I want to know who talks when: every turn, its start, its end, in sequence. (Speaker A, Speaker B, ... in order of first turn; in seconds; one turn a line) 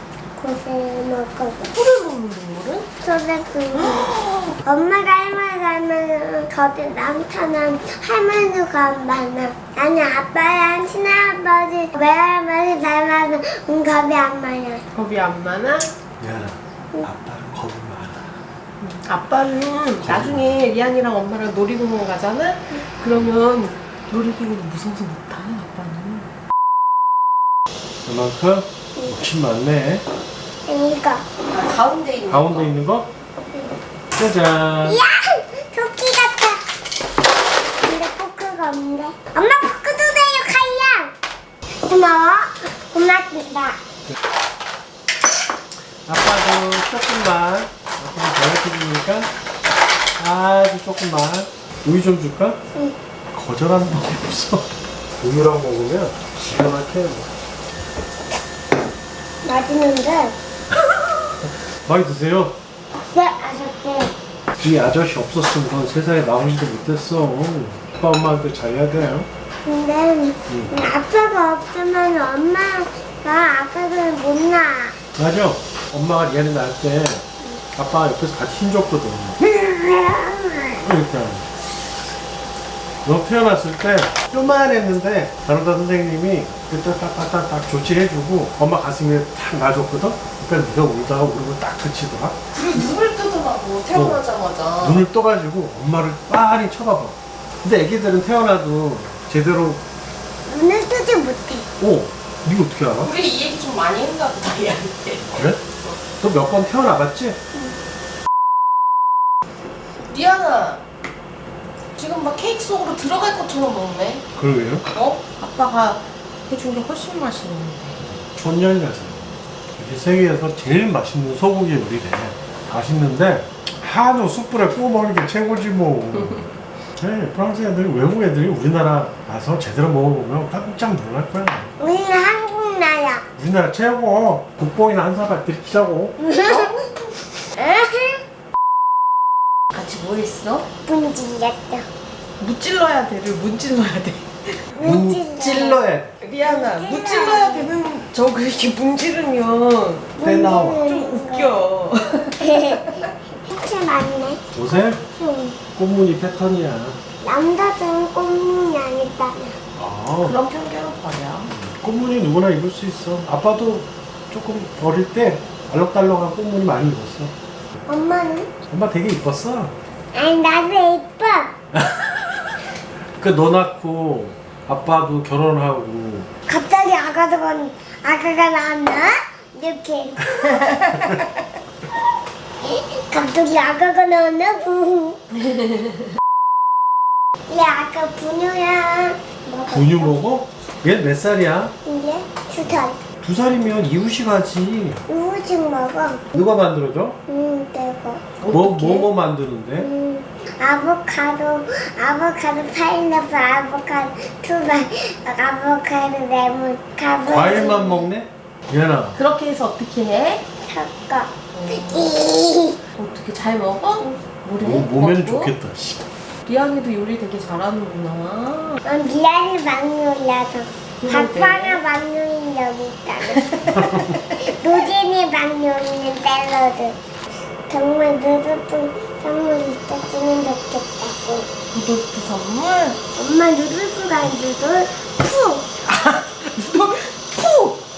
Speaker A: 0.4-1.7
Speaker B: 1.6-2.9
Speaker A: 3.0-4.1
Speaker B: 3.7-4.6
Speaker A: 4.6-14.8
Speaker B: 14.9-15.9
Speaker C: 16.2-18.4
Speaker B: 18.8-26.3
Speaker C: 20.0-20.4
Speaker C: 28.1-30.0
Speaker A: 30.7-31.2
Speaker B: 31.4-32.8
Speaker C: 32.3-33.1
Speaker C: 34.1-35.0
Speaker A: 34.8-36.6
Speaker A: 37.8-41.1
Speaker A: 41.9-43.8
Speaker C: 46.1-49.3
Speaker C: 50.2-52.6
Speaker C: 53.3-57.3
Speaker A: 59.4-60.4
Speaker C: 60.9-62.6
Speaker A: 63.1-64.1
Speaker C: 64.6-69.3
Speaker A: 69.7-75.0
Speaker C: 75.2-79.4
Speaker A: 79.4-80.9
Speaker C: 80.8-81.4
Speaker C: 83.0-92.4
Speaker B: 92.5-95.1
Speaker C: 93.9-94.2
Speaker C: 94.8-99.8
Speaker A: 100.5-101.7
Speaker C: 101.8-103.1
Speaker B: 103.0-106.0
Speaker C: 105.3-105.6
Speaker C: 106.2-107.4
Speaker B: 110.0-110.8
Speaker B: 112.0-114.3
Speaker C: 114.4-114.9
Speaker B: 114.9-118.0
Speaker C: 118.1-131.7
Speaker A: 131.8-133.3
Speaker C: 133.4-136.2
Speaker A: 136.2-136.7
Speaker B: 136.4-137.1
Speaker A: 137.6-138.2
Speaker B: 139.7-140.7
Speaker A: 140.8-141.9
Speaker B: 142.4-144.8
Speaker A: 144.8-145.8
Speaker C: 144.8-146.2
Speaker B: 146.2-153.2
Speaker A: 146.4-147.7
Speaker A: 150.2-151.5
Speaker C: 150.2-150.8
Speaker A: 152.4-154.4
Speaker C: 154.5-155.0
Speaker A: 155.1-155.6
Speaker C: 155.7-157.0
Speaker A: 157.2-159.6
Speaker C: 159.8-160.4
Speaker B: 160.2-161.5
Speaker C: 161.5-167.3
Speaker A: 167.9-168.6
Speaker C: 168.7-169.8
Speaker A: 170.1-171.5
Speaker C: 171.7-172.6
Speaker C: 173.2-176.3
Speaker A: 176.5-181.3
Speaker A: 182.6-185.4
Speaker B: 185.5-186.0
Speaker A: 187.5-190.2
Speaker C: 189.7-191.8
Speaker A: 191.8-193.1
Speaker C: 193.2-195.0
Speaker A: 195.1-196.4
Speaker C: 196.3-197.2
Speaker A: 197.3-198.3
Speaker B: 198.4-199.1
Speaker C: 198.5-199.9
Speaker A: 199.8-208.1
Speaker C: 207.3-209.2
Speaker B: 209.2-210.4
Speaker A: 210.6-212.8
Speaker B: 211.5-212.1
Speaker B: 212.9-215.6
Speaker C: 214.6-216.1
Speaker B: 216.4-218.8
Speaker A: 218.8-223.7
Speaker B: 221.0-221.8
Speaker B: 223.3-224.4
Speaker C: 223.7-224.2
Speaker A: 224.3-227.0
Speaker A: 227.7-231.5
Speaker B: 231.7-233.0
Speaker A: 233.2-235.7
Speaker B: 235.8-237.8